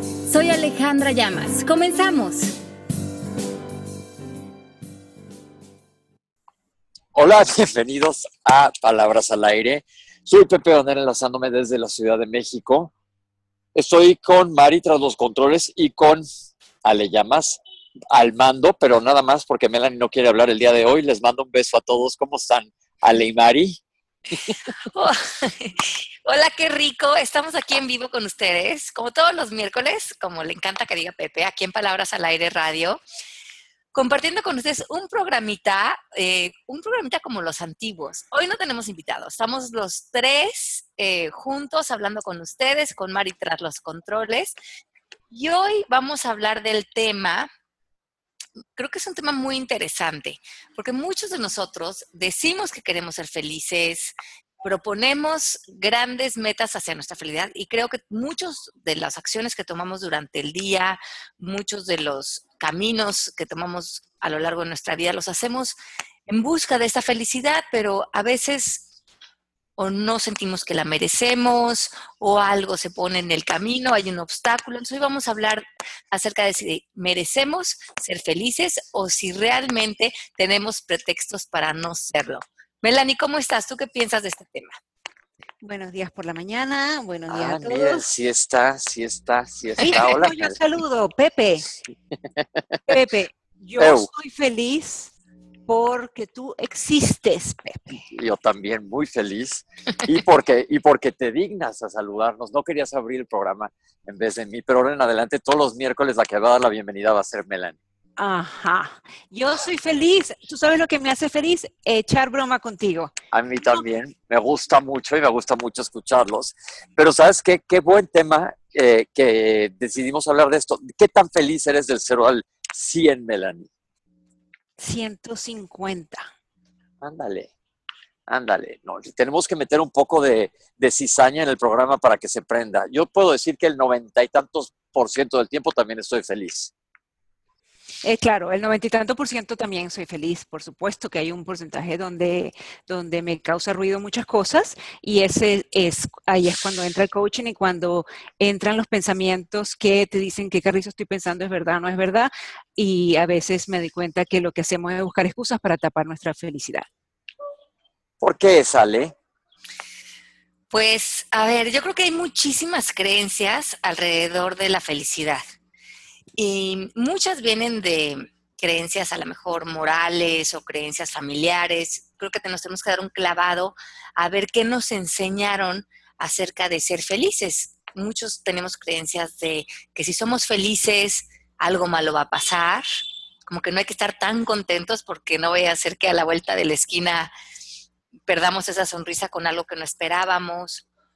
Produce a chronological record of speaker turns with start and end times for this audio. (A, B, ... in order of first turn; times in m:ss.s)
0:00.3-0:02.5 A
0:07.1-0:12.9 B
0:13.8-0:16.2 B
0:16.8-0:17.6 B
0:18.1-0:23.8 B
0:24.9-0:33.0 A
0:33.9-0:44.6 A
0:45.3-0:47.5 A
0:48.8-1:05.8 A
1:06.3-1:08.9 A
1:09.8-1:24.8 A
1:25.6-1:28.0 C
1:27.3-1:30.6 B
1:29.8-1:31.7 C
1:32.4-1:33.0 B
1:32.9-1:35.1 C
1:33.8-1:34.1 B
1:35.7-1:38.0 C
1:38.1-1:47.8 B
1:48.2-1:53.1 C
1:53.3-2:03.7 B
2:04.8-2:06.3 C
2:07.0-2:07.5 B
2:08.3-2:16.7 B
2:18.0-2:36.9 C
2:38.2-2:39.1 B
2:40.7-2:45.4 A
2:46.4-3:02.8 A
3:03.5-3:07.3 A
3:08.3-3:10.8 A